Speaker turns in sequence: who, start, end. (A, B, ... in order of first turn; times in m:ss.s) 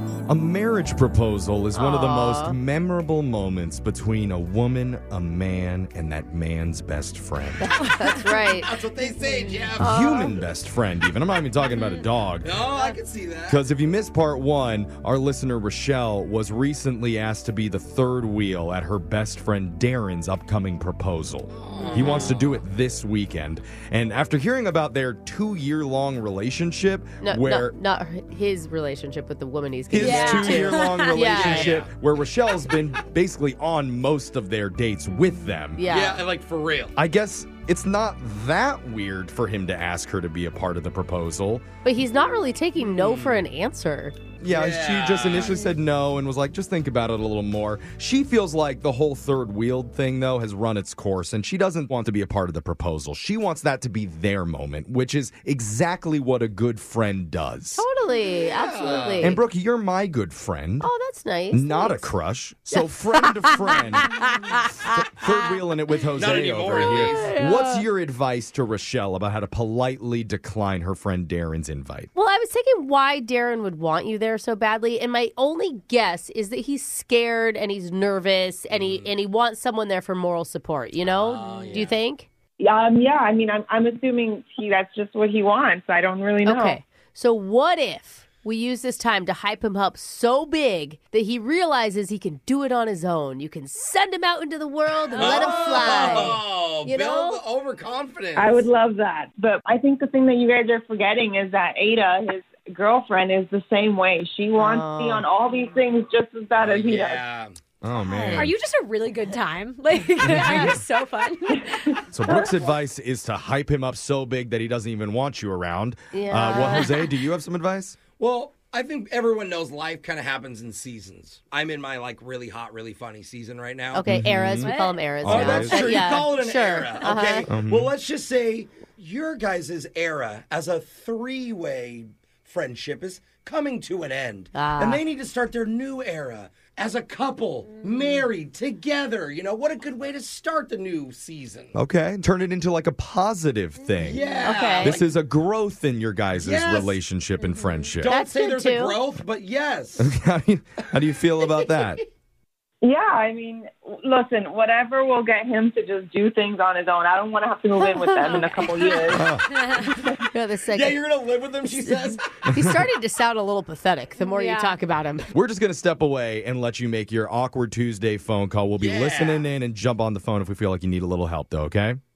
0:00.3-0:07.7 A
0:01.7-0:02.6 B
0:07.6-0:08.7 B
0:08.1-0:10.1 C
0:09.8-0:10.4 B
0:09.8-0:12.5 A
0:12.4-0:13.6 C
0:13.5-0:27.7 A
0:21.5-0:22.5 C
0:27.2-0:31.8 B
0:29.9-0:35.8 A
0:30.0-0:31.1 D
0:31.2-0:31.9 C
0:35.8-0:36.2 B
0:35.8-0:36.9 C
0:37.0-0:41.6 A
0:41.8-0:44.2 B
0:42.9-0:43.4 C
0:44.4-0:57.8 A
0:44.5-0:45.6 C
0:57.8-0:59.4 B
0:58.5-0:59.4 C
0:59.2-1:00.9 A
1:00.8-1:02.1 B
1:01.5-1:04.3 A
1:02.7-1:04.9 B
1:04.8-1:12.1 A
1:06.2-1:07.3 C
1:06.9-1:07.8 B
1:12.1-1:22.3 B
1:18.7-1:19.1 C
1:21.0-1:22.0 C
1:22.6-1:26.8 E
1:26.4-1:37.4 B
1:35.1-1:38.7 C
1:35.2-1:36.1 D
1:38.4-1:47.2 E
1:44.6-1:45.2 B
1:46.6-1:47.6 C
1:47.8-1:48.5 A
1:48.1-1:51.9 D
1:50.2-1:50.8 A
1:50.3-1:50.7 B
1:52.1-1:58.0 A
1:52.3-1:52.5 E
1:56.1-1:56.9 B
1:58.1-2:04.1 C
2:03.9-2:07.5 B
2:04.0-2:06.0 A
2:04.6-2:05.8 D
2:05.2-2:21.7 C
2:07.5-2:07.9 A
2:14.5-2:15.0 B
2:17.7-2:18.1 D
2:21.7-2:24.2 A
2:24.0-2:25.0 C
2:24.1-2:24.5 D
2:24.4-2:25.0 B
2:24.8-2:28.1 A
2:26.4-2:26.9 C
2:27.4-2:27.9 D
2:28.0-2:30.1 C
2:28.1-2:29.0 B
2:30.0-2:32.0 A
2:32.8-2:39.3 E
2:37.8-2:38.6 B
2:38.3-2:38.9 D
2:39.1-2:39.5 A
2:39.5-2:39.9 D
2:40.3-2:41.0 B
2:40.7-2:42.4 C
2:41.8-2:45.3 B
2:44.2-2:44.8 D
2:45.3-2:52.0 A
2:48.8-2:49.4 C